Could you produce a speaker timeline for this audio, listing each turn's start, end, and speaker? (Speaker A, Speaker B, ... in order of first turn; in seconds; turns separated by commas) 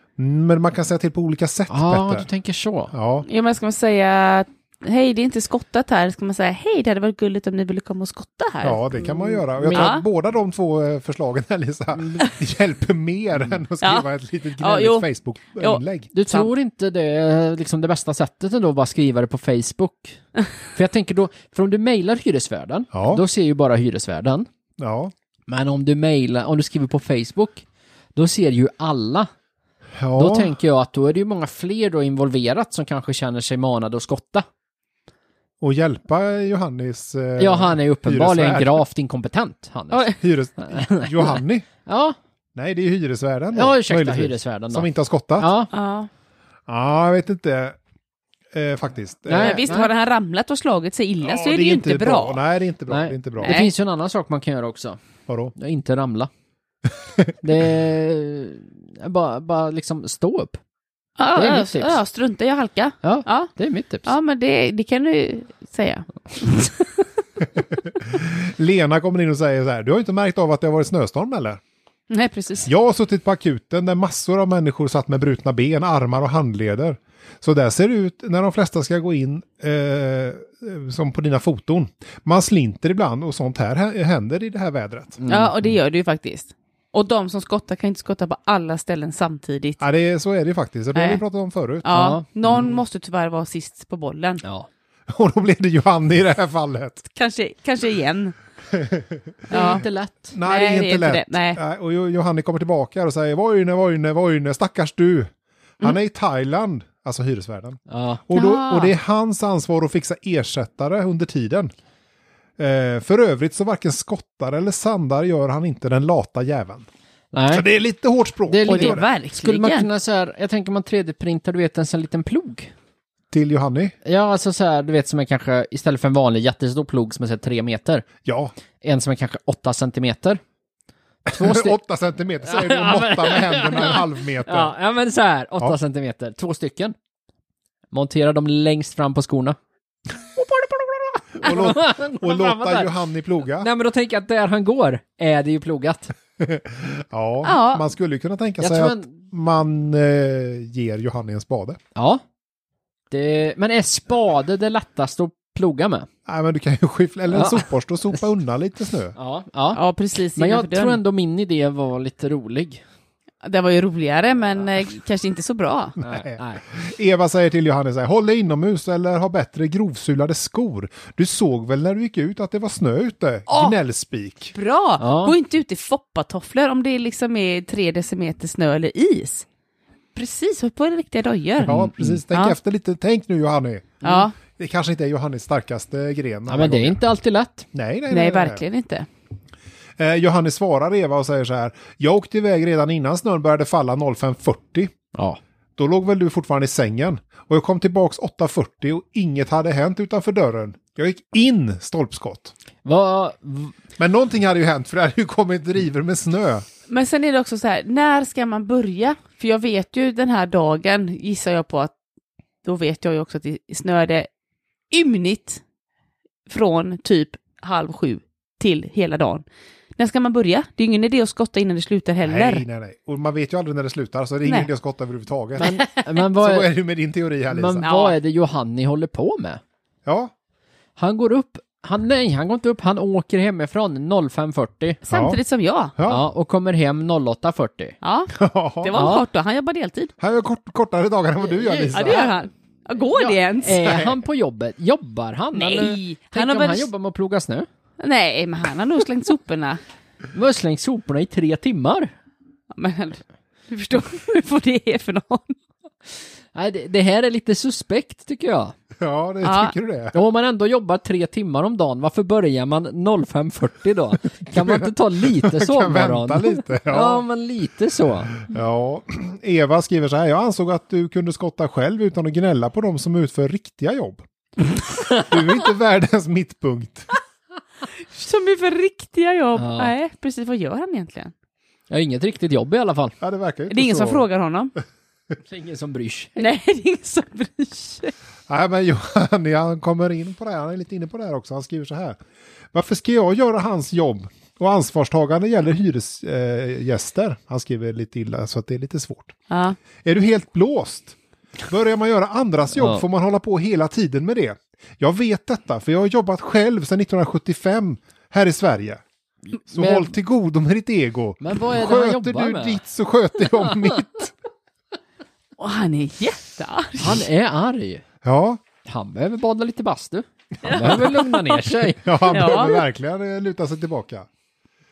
Speaker A: 0.2-2.3, Speaker B: 1.7-2.9, Speaker A: 2.9-3.3, Speaker C: 3.2-10.0, Speaker A: 8.6-16.1, Speaker C: 13.8-14.1, Speaker C: 14.6-15.1, Speaker C: 15.6-16.5, Speaker B: 16.1-24.5, Speaker A: 22.9-23.2, Speaker A: 24.8-25.1, Speaker B: 25.5-27.6, Speaker B: 28.1-29.3, Speaker A: 30.0-30.6, Speaker B: 30.2-34.5, Speaker A: 35.6-38.8, Speaker B: 37.4-42.2, Speaker C: 39.9-40.2, Speaker A: 40.2-41.7, Speaker A: 42.5-45.5, Speaker B: 43.5-44.9, Speaker B: 45.4-45.7, Speaker C: 45.7-46.1, Speaker A: 46.7-47.8, Speaker A: 48.5-49.6, Speaker B: 49.3-49.9, Speaker C: 49.3-52.4, Speaker A: 51.2-53.6, Speaker B: 52.9-55.0, Speaker C: 53.4-53.7, Speaker A: 55.3-55.5, Speaker B: 55.5-56.3, Speaker A: 56.9-57.3, Speaker B: 57.4-60.6, Speaker C: 61.2-63.5, Speaker B: 61.3-62.0, Speaker B: 63.0-64.1, Speaker C: 64.0-67.0, Speaker A: 67.7-71.6, Speaker C: 72.1-72.7, Speaker A: 72.7-85.2, Speaker B: 85.2-85.5, Speaker C: 85.3-89.8, Speaker A: 89.8-91.9, Speaker C: 91.0-91.2, Speaker C: 91.8-94.4, Speaker B: 91.9-92.6, Speaker B: 94.4-94.7, Speaker A: 95.1-97.0, Speaker C: 97.1-98.4, Speaker A: 98.7-111.7, Speaker C: 99.5-99.8, Speaker B: 99.5-100.3, Speaker C: 100.4-101.6, Speaker B: 107.9-108.2, Speaker C: 108.3-108.9, Speaker A: 112.6-116.9, Speaker B: 117.3-117.6, Speaker A: 117.5-119.1, Speaker B: 118.5-122.7, Speaker C: 118.7-119.9, Speaker A: 123.3-123.9, Speaker B: 124.0-128.1, Speaker A: 128.2-128.5, Speaker B: 128.8-130.4, Speaker B: 131.3-131.8, Speaker A: 131.3-134.7, Speaker B: 132.4-136.9, Speaker B: 137.9-139.6, Speaker B: 140.4-142.9, Speaker A: 141.4-143.7, Speaker B: 143.6-146.1, Speaker A: 146.4-151.8, Speaker C: 147.4-147.8, Speaker B: 148.6-149.2, Speaker B: 151.9-152.2, Speaker B: 153.1-156.1, Speaker A: 156.3-159.2, Speaker B: 157.3-158.2, Speaker B: 159.2-159.8, Speaker C: 159.7-161.0, Speaker B: 160.4-162.8, Speaker C: 163.4-166.0, Speaker A: 166.0-174.5, Speaker B: 166.0-166.6, Speaker C: 173.5-173.8, Speaker C: 174.5-179.4, Speaker B: 175.0-175.3, Speaker C: 180.1-182.6, Speaker A: 181.6-187.0, Speaker B: 181.7-182.2, Speaker C: 184.0-184.3, Speaker B: 186.5-187.7, Speaker A: 187.7-188.6, Speaker C: 188.1-189.1, Speaker A: 190.0-194.9, Speaker A: 195.8-202.5, Speaker B: 202.8-203.7, Speaker A: 204.0-206.6, Speaker C: 206.9-211.9, Speaker C: 212.6-214.3, Speaker C: 214.9-215.6, Speaker C: 216.5-219.4, Speaker C: 220.0-222.6, Speaker A: 222.2-227.8, Speaker C: 225.6-226.0, Speaker B: 225.6-226.7, Speaker B: 227.5-229.6, Speaker C: 227.8-228.2, Speaker A: 230.1-230.3, Speaker B: 231.0-235.0, Speaker C: 235.0-235.9, Speaker A: 235.1-235.4, Speaker A: 235.9-236.3, Speaker B: 236.1-238.0, Speaker C: 238.0-238.3, Speaker A: 238.3-239.0, Speaker C: 238.8-240.1, Speaker B: 238.9-239.3, Speaker A: 240.2-242.4, Speaker B: 241.6-242.3, Speaker C: 241.9-243.8, Speaker B: 243.2-247.7, Speaker A: 243.8-244.2, Speaker C: 245.5-246.9, Speaker C: 248.0-249.8, Speaker B: 250.3-252.1, Speaker C: 252.7-255.6, Speaker B: 256.5-258.7, Speaker A: 259.0-260.1, Speaker C: 259.4-259.7, Speaker B: 260.1-268.4, Speaker A: 264.5-267.2, Speaker A: 268.4-274.2, Speaker B: 274.9-275.2, Speaker A: 275.3-277.1, Speaker C: 278.0-281.3, Speaker B: 279.6-279.9, Speaker B: 281.9-283.1, Speaker A: 283.2-284.2, Speaker C: 283.7-284.7, Speaker B: 285.4-286.4, Speaker C: 286.4-288.1, Speaker A: 288.5-292.2, Speaker A: 292.7-299.3, Speaker C: 299.5-299.8, Speaker A: 300.0-309.0, Speaker B: 302.7-303.0, Speaker B: 309.6-310.1, Speaker A: 309.7-314.3, Speaker B: 311.4-312.8, Speaker C: 315.6-317.3, Speaker B: 317.0-318.0, Speaker A: 318.2-318.6, Speaker B: 318.8-322.5, Speaker C: 320.6-321.2, Speaker A: 320.8-321.1, Speaker A: 322.0-324.3, Speaker C: 322.3-322.8